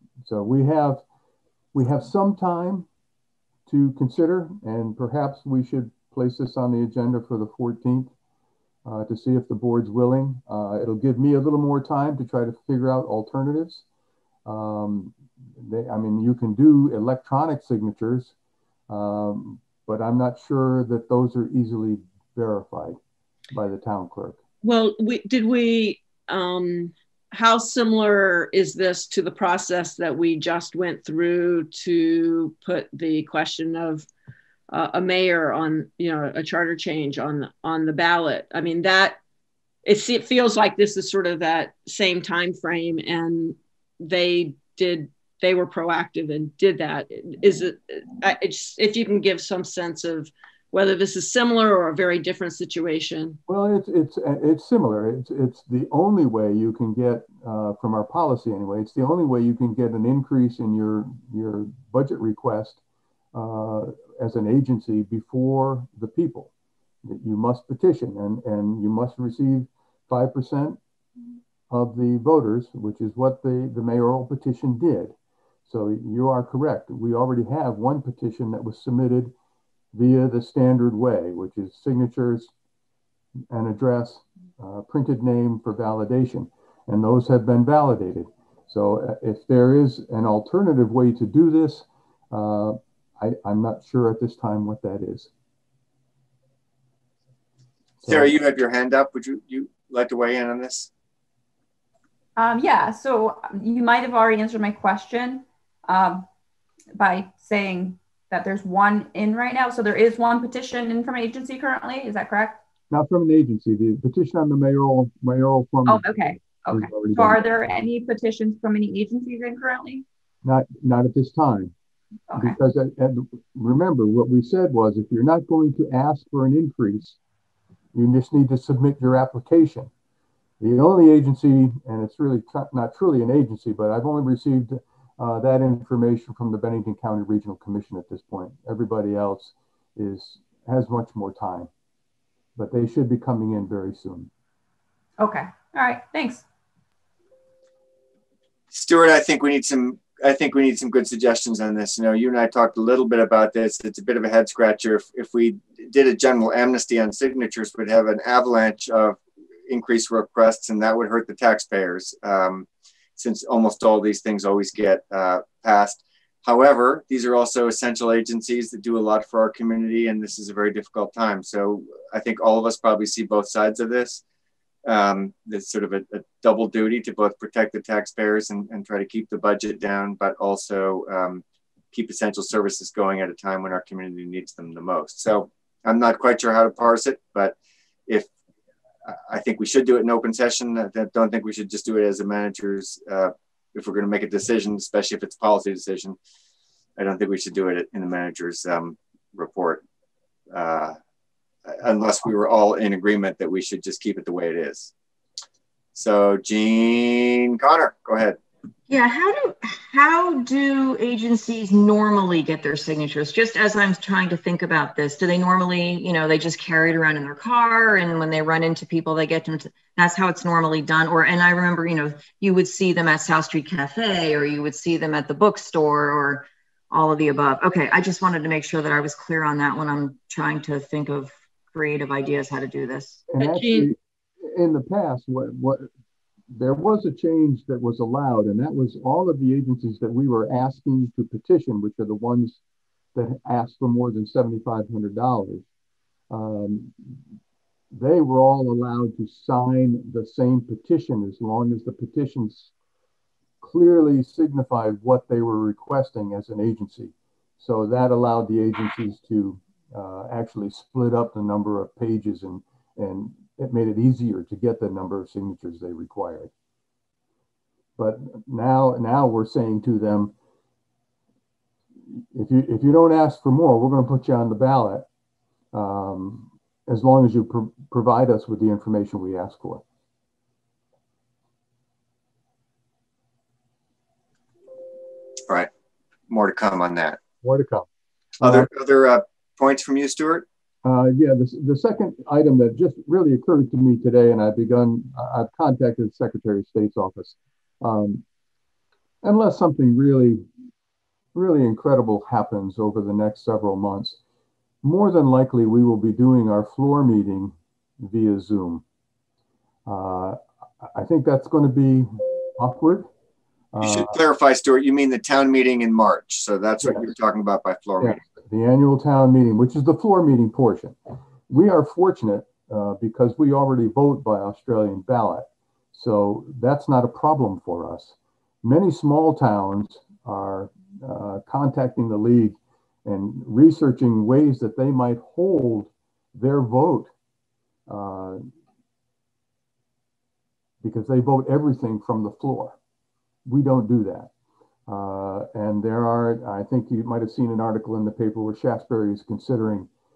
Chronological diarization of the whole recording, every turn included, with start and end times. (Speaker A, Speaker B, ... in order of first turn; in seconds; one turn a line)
Speaker A: 0.2-1.0
Speaker A: 1.7-2.9
Speaker A: 3.7-8.1
Speaker A: 8.8-13.8
Speaker A: 14.4-18.3
Speaker A: 18.9-23.0
Speaker A: 23.5-24.4
Speaker B: 24.6-34.1
Speaker B: 34.7-39.2
Speaker B: 39.9-53.4
Speaker A: 53.5-62.8
Speaker A: 63.3-66.5
Speaker A: 67.0-70.8
Speaker A: 71.7-75.2
Speaker A: 75.7-79.3
Speaker A: 79.9-82.5
Speaker A: 83.5-95.3
Speaker A: 98.0-98.3
Speaker C: 98.1-100.9
Speaker D: 102.4-106.3
Speaker D: 106.9-112.6
Speaker A: 112.9-116.1
Speaker D: 115.9-120.0
Speaker A: 116.7-117.4
Speaker A: 120.4-121.7
Speaker D: 122.3-122.6
Speaker A: 122.4-127.2
Speaker A: 127.9-129.9
Speaker A: 130.6-141.7
Speaker A: 142.6-144.3
Speaker D: 145.2-146.4
Speaker C: 148.7-174.2
Speaker C: 174.8-187.6
Speaker C: 189.1-196.2
Speaker C: 197.0-199.8
Speaker C: 200.5-201.0
Speaker C: 201.7-204.9
Speaker C: 205.9-208.4
Speaker E: 208.9-233.2
Speaker A: 233.3-235.9
Speaker B: 233.4-233.9
Speaker A: 236.5-242.6
Speaker A: 243.2-245.6
Speaker A: 246.3-247.0
Speaker A: 247.9-252.7
Speaker A: 253.6-266.5
Speaker A: 268.0-270.3
Speaker A: 272.3-275.1
Speaker A: 275.7-279.8
Speaker C: 286.3-287.2
Speaker A: 287.4-287.9
Speaker A: 288.4-288.7
Speaker C: 288.4-290.5
Speaker A: 290.8-298.2
Speaker A: 299.2-300.5
Speaker A: 301.3-304.2
Speaker A: 304.8-308.8
Speaker A: 309.9-313.1
Speaker A: 313.7-314.2
Speaker C: 313.8-318.2
Speaker A: 316.8-317.1
Speaker A: 318.0-321.0
Speaker A: 321.5-337.1
Speaker A: 337.9-338.4
Speaker A: 340.8-342.8
Speaker A: 343.5-344.3
Speaker A: 344.9-349.9